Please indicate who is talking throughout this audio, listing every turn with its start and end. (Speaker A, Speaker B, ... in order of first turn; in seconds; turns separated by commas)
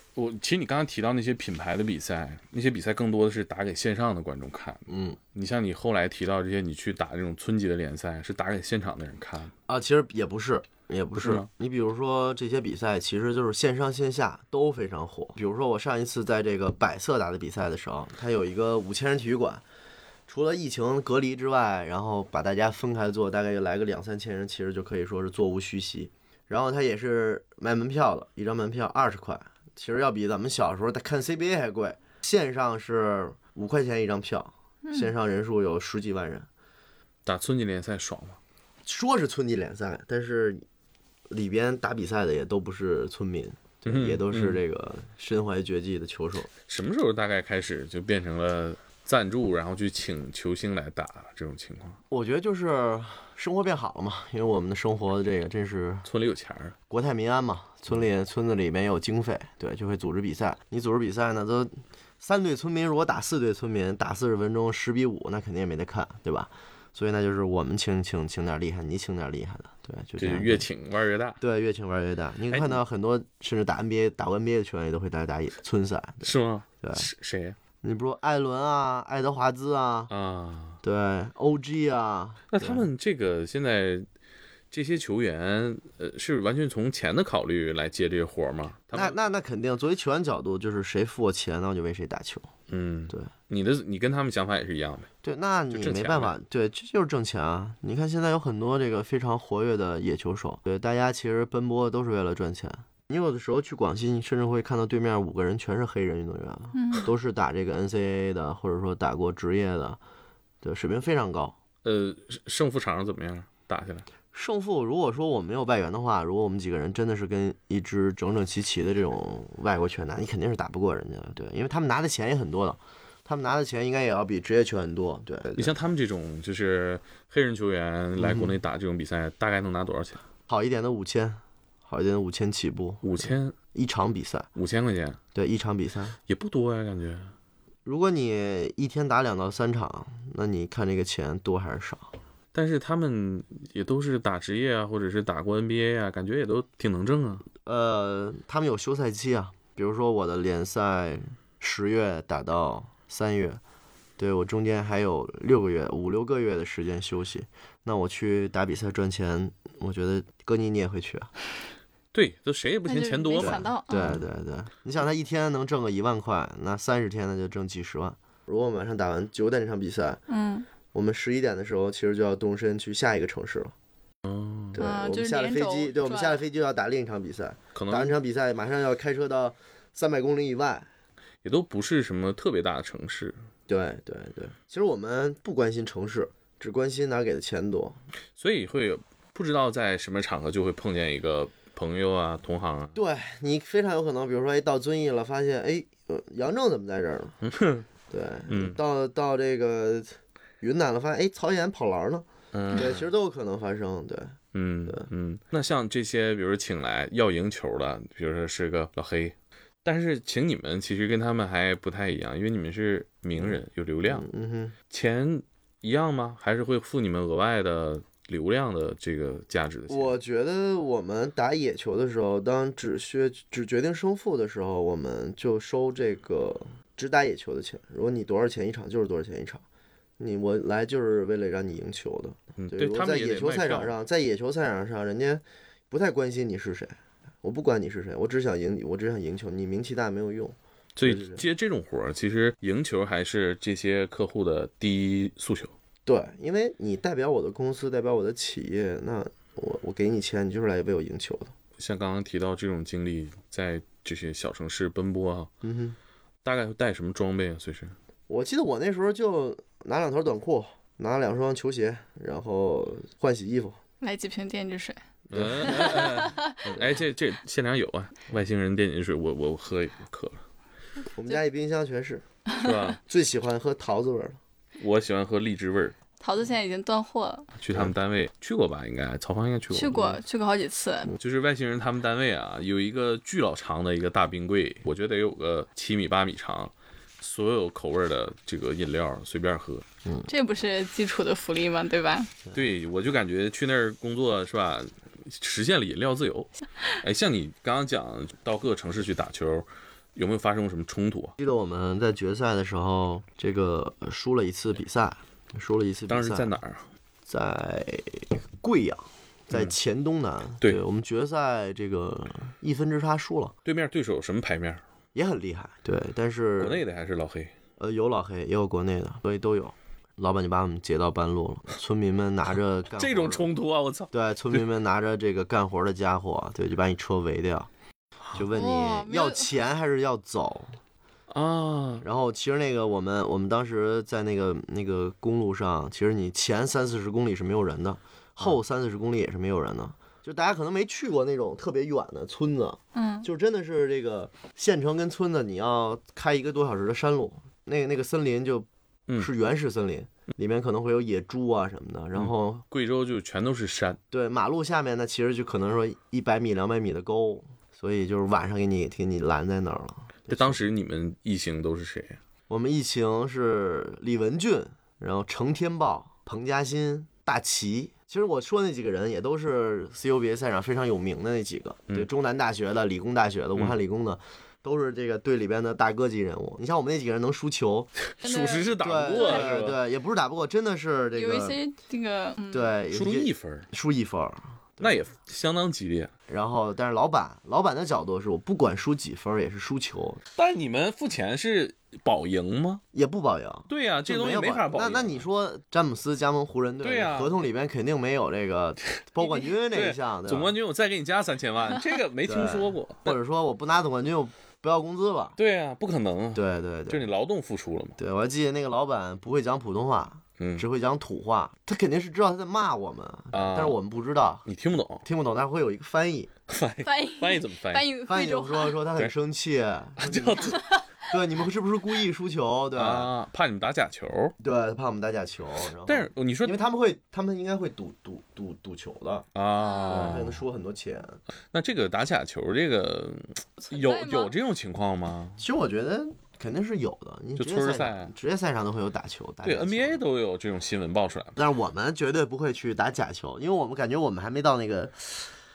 Speaker A: 0.1-9.5, Speaker B: 4.9-5.2, Speaker B: 9.7-19.6, Speaker A: 11.2-11.5, Speaker B: 20.3-36.5, Speaker C: 34.8-35.1, Speaker A: 37.2-38.4, Speaker B: 38.8-40.6, Speaker B: 41.3-46.5, Speaker A: 43.8-44.6, Speaker A: 46.7-52.0, Speaker B: 52.1-56.1, Speaker A: 56.0-56.8, Speaker B: 56.9-70.7, Speaker A: 70.2-71.4, Speaker B: 71.4-77.1, Speaker A: 72.5-72.8, Speaker A: 76.2-77.6, Speaker B: 77.8-80.1, Speaker A: 80.1-80.8, Speaker B: 80.8-82.8, Speaker A: 82.5-84.1, Speaker A: 84.7-89.2, Speaker B: 88.9-92.5, Speaker A: 92.7-95.1, Speaker B: 95.2-110.0, Speaker A: 95.7-96.3, Speaker C: 106.7-107.1, Speaker B: 110.6-111.5, Speaker A: 111.8-114.1, Speaker B: 114.3-125.7, Speaker A: 125.6-130.2, Speaker B: 128.2-128.5, Speaker B: 130.5-134.5, Speaker A: 133.0-133.6, Speaker A: 134.5-135.2, Speaker B: 135.3-136.2, Speaker A: 136.3-137.3, Speaker B: 137.8-142.1, Speaker A: 142.5-147.4, Speaker B: 147.6-153.6, Speaker B: 154.2-161.3, Speaker A: 162.1-164.2, Speaker C: 162.8-164.2, Speaker B: 163.4-170.2, Speaker C: 170.3-170.7, Speaker B: 170.9-173.7, Speaker A: 174.2-174.8, Speaker B: 174.7-180.9, Speaker C: 174.8-176.4, Speaker A: 177.7-178.1, Speaker A: 181.4-183.4, Speaker B: 183.7-188.0, Speaker A: 188.4-193.0, Speaker B: 192.9-197.4, Speaker A: 197.4-197.8, Speaker B: 198.1-205.1, Speaker A: 198.5-198.8, Speaker A: 202.5-203.1, Speaker A: 204.5-214.2, Speaker B: 213.4-214.7, Speaker A: 214.9-220.2, Speaker B: 219.9-229.6, Speaker B: 230.2-241.4, Speaker A: 232.6-233.9, Speaker A: 240.9-245.7, Speaker B: 246.1-251.5, Speaker A: 251.8-255.5, Speaker B: 255.6-256.0, Speaker A: 256.4-257.9, Speaker B: 258.3-263.8, Speaker C: 264.0-265.0, Speaker B: 265.3-266.2, Speaker A: 265.3-270.4, Speaker C: 265.6-266.6, Speaker B: 271.1-272.2, Speaker A: 272.5-273.0, Speaker B: 273.1-274.4, Speaker A: 274.8-276.0, Speaker C: 276.2-277.5, Speaker A: 277.6-280.2, Speaker C: 279.7-281.1, Speaker A: 281.1-289.8, Speaker C: 290.3-292.3, Speaker A: 292.5-301.3, Speaker B: 301.4-306.5, Speaker A: 306.1-306.9, Speaker B: 307.3-313.5, Speaker A: 313.6-314.8, Speaker B: 315.1-316.8, Speaker A: 316.6-317.5, Speaker B: 317.8-323.5, Speaker A: 322.9-324.6, Speaker B: 324.1-327.7, Speaker B: 328.3-330.8, Speaker C: 328.5-329.5, Speaker A: 331.3-332.0, Speaker B: 332.0-352.6, Speaker C: 342.9-343.3, Speaker A: 352.1-354.0, Speaker B: 354.1-360.6, Speaker A: 360.3-362.2, Speaker B: 362.5-377.9, Speaker A: 378.1-379.8, Speaker C: 378.2-379.5, Speaker B: 378.8-381.6, Speaker C: 381.1-382.7, Speaker B: 382.5-384.9, Speaker A: 382.9-383.7, Speaker A: 384.8-386.1, Speaker B: 386.3-390.2, Speaker A: 390.3-392.8, Speaker B: 392.9-400.5, Speaker A: 393.7-395.2, Speaker A: 396.8-397.4, Speaker A: 399.2-403.2, Speaker B: 402.2-405.4, Speaker A: 405.4-408.0, Speaker B: 406.3-407.1, Speaker B: 408.0-414.5, Speaker A: 410.4-410.6, Speaker A: 413.3-413.8, Speaker A: 414.4-415.0, Speaker B: 415.0-416.3, Speaker A: 416.5-417.9, Speaker C: 416.8-418.8, Speaker B: 418.1-423.1, Speaker A: 420.0-420.6, Speaker C: 420.6-420.8, Speaker A: 422.7-424.4, Speaker B: 424.4-429.3, Speaker A: 425.8-426.6, Speaker A: 429.3-430.4, Speaker C: 429.6-430.2, Speaker B: 429.9-431.2, Speaker A: 431.5-435.4, Speaker C: 433.6-434.3, Speaker B: 435.4-440.0, Speaker A: 437.4-438.1, Speaker A: 439.4-441.4, Speaker B: 441.4-445.3